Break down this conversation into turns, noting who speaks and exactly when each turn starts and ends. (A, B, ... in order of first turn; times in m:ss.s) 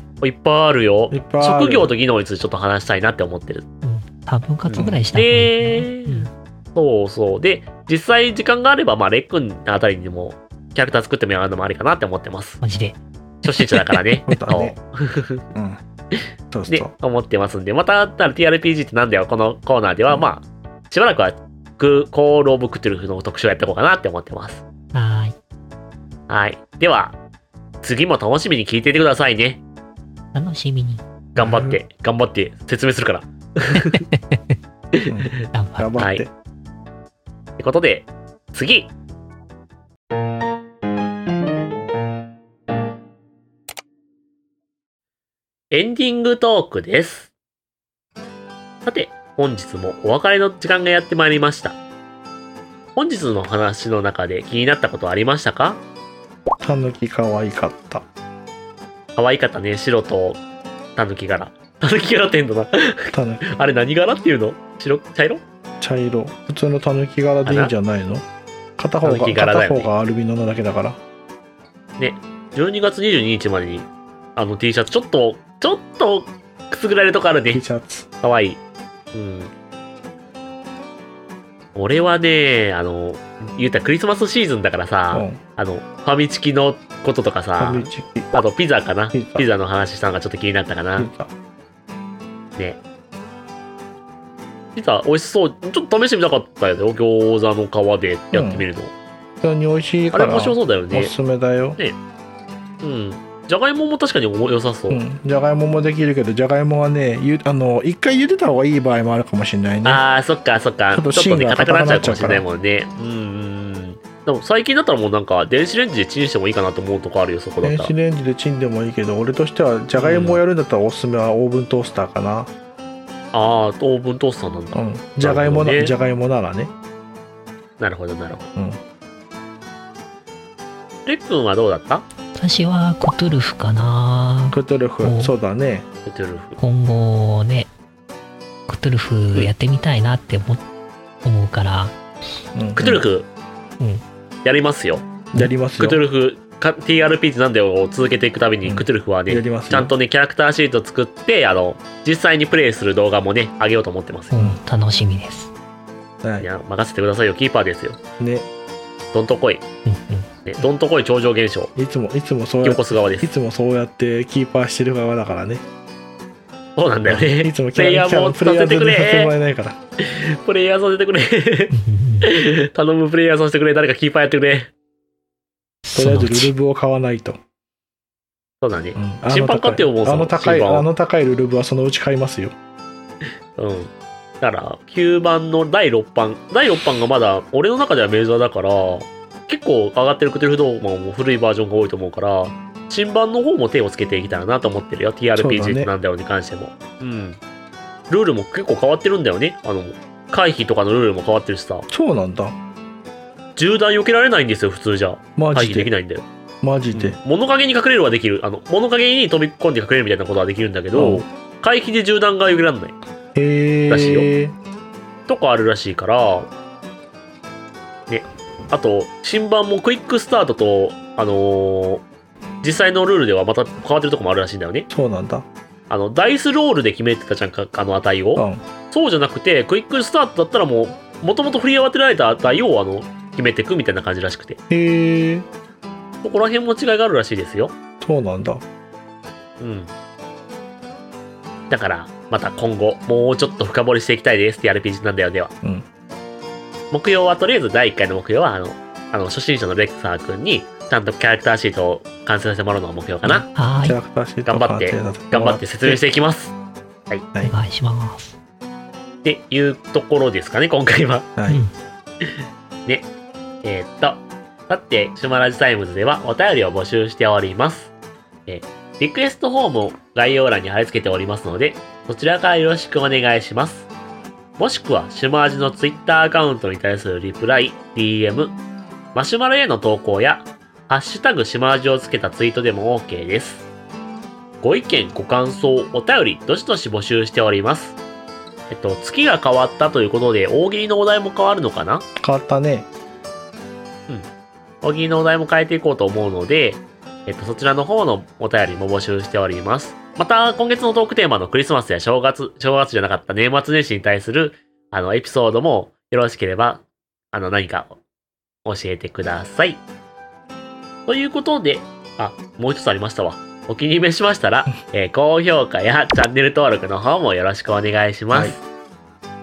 0:00.2-0:03.6 A
0:01.1-0:01.9 B
0:03.8-0:06.3 C
0:04.7-0:12.6 A
0:04.7-0:05.0 B
0:12.6-0:14.5 C
0:13.4-0:15.4 A
0:14.3-0:14.8 B
0:15.5-0:15.8 B
0:16.5-0:16.9 B
0:16.7-0:24.6 A
0:24.9-0:25.4 C
0:26.3-0:27.2 A
0:27.8-0:29.6 A
0:30.3-0:31.0 C
0:31.4-0:34.0 A
0:31.4-0:31.8 B
0:33.8-0:34.6 C
0:35.1-0:36.3 B
0:35.5-0:36.0 C
0:36.0-0:36.2 A
0:37.6-0:38.9 A
0:45.7-0:47.3 A
0:48.8-0:51.8 A
0:53.0-0:55.8 A
0:56.6-0:58.0 B
0:59.2-1:00.4 A
1:01.0-1:05.4 A
1:03.1-1:03.4 B
1:05.8-1:08.3 B
1:07.4-1:07.7 A
1:08.8-1:11.0 B
1:09.0-1:09.9 A
1:12.0-1:17.6 A
1:17.5-1:18.1 B
1:18.2-1:18.6 A
1:19.1-1:19.5 A
1:21.8-1:31.1 A
1:25.1-1:25.4 B
1:27.6-1:28.3 B
1:29.1-1:29.5 B
1:31.0-1:31.3 B
1:34.8-1:38.9 A
1:38.3-1:38.7 B
1:39.4-1:41.8 B
1:40.1-1:41.1 A
1:42.8-1:45.0 A
1:44.9-1:50.0 B
1:49.8-1:57.9 A
1:50.9-1:52.4 B
1:57.6-2:02.5 B
2:00.0-2:00.4 A
2:03.3-2:06.0 A
2:04.7-2:06.7 B
2:07.8-2:08.5 A
2:08.6-2:08.8 B
2:11.1-2:12.1 A
2:12.3-2:15.4 C
2:14.5-2:15.9 B
2:16.1-2:16.6 A
2:16.6-2:17.7 C
2:18.7-2:20.6 C
2:21.2-2:22.0 C
2:22.6-2:23.0 B
2:22.8-2:23.3 A
2:24.4-2:25.1 A
2:25.3-2:26.0 B
2:25.8-2:34.3 A
2:28.6-2:29.9 B
2:34.3-2:35.5 C
2:34.3-2:34.6 B
2:36.2-2:36.5 B
2:36.4-2:38.0 A
2:38.2-2:38.5 B
2:39.1-2:39.6 A
2:39.9-2:40.3 C
2:40.4-2:41.7 A
2:41.8-2:45.6 B
2:42.6-2:43.3 A
2:46.8-2:49.3 A
2:47.1-2:49.8 B
2:50.0-2:54.7 A
2:51.7-2:52.3 C
2:55.8-2:56.5 C
2:56.0-2:57.4 B
2:58.6-3:00.9 A
2:59.0-3:02.6 B
3:03.6-3:17.4 A
3:15.4-3:15.9 B
3:18.1-3:21.9 A
3:21.9-3:22.6 B
3:23.6-3:26.3 A
3:25.4-3:25.9 B
3:26.6-3:27.2 B
3:26.9-3:33.0 A
3:30.9-3:31.3 B
3:33.4-3:34.6 B
3:33.9-3:34.3 A
3:35.3-3:36.5 A
3:38.1-3:42.0 A
3:42.6-3:44.9 A
3:44.9-3:45.5 B
3:45.9-3:54.6 A
3:48.4-3:48.6 B
3:54.7-3:55.5 B
3:56.2-3:57.8 A
3:58.0-3:58.6 B
3:59.6-3:59.9 A
4:01.7-4:05.5 A
4:06.9-4:13.5 A
4:13.2-4:16.0 B
4:13.5-4:14.0 C
4:14.5-4:16.6 A
4:17.4-4:18.4 C
4:19.2-4:21.3 A
4:21.5-4:21.7 C
4:22.2-4:23.1 A
4:23.6-4:27.9 A
4:28.5-4:33.9 A
4:34.6-4:38.6 A
4:39.1-4:43.6 A
4:44.6-4:48.0 A
4:48.7-4:52.1 A
4:52.2-4:52.9 B
4:54.8-5:08.0 A
5:08.6-5:09.8 A
5:11.1-5:18.6 A
5:18.3-5:18.6 B